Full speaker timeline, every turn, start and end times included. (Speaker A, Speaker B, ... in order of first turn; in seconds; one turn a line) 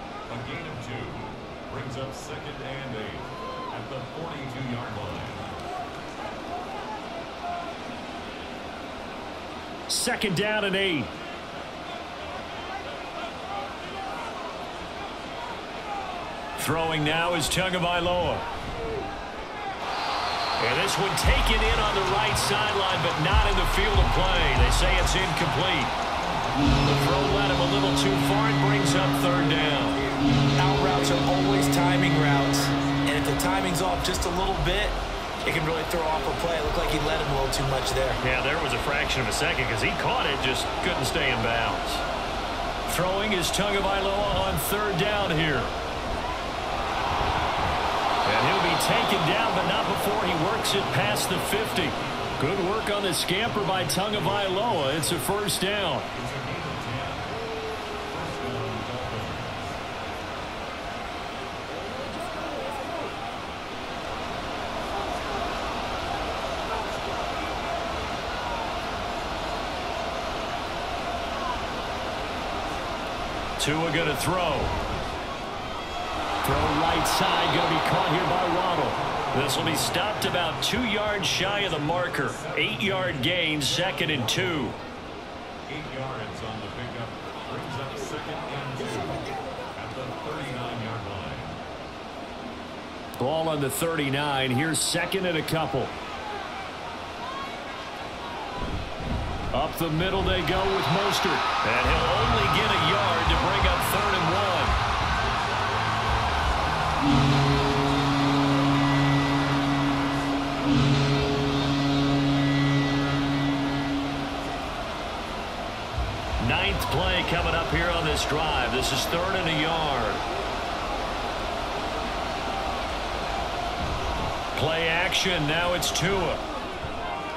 Speaker A: 0.3-5.6
Speaker B: 9.9-11.1
Speaker B: 16.6-18.4
Speaker B: 20.6-25.9
Speaker B: 26.8-30.0
Speaker C: 30.6-38.2
Speaker B: 38.2-42.0
Speaker B: 42.9-45.7
Speaker B: 48.2-56.1
Speaker A: 51.8-52.4
Speaker A: 56.1-57.3
Speaker A: 58.1-59.8
Speaker B: 73.6-74.8
Speaker B: 76.4-84.8
Speaker A: 79.0-80.4
Speaker A: 81.9-84.7
Speaker A: 85.7-91.6
Speaker B: 93.2-95.9
Speaker B: 99.5-104.8
Speaker A: 105.2-106.5
Speaker B: 116.4-120.2
Speaker B: 124.5-126.4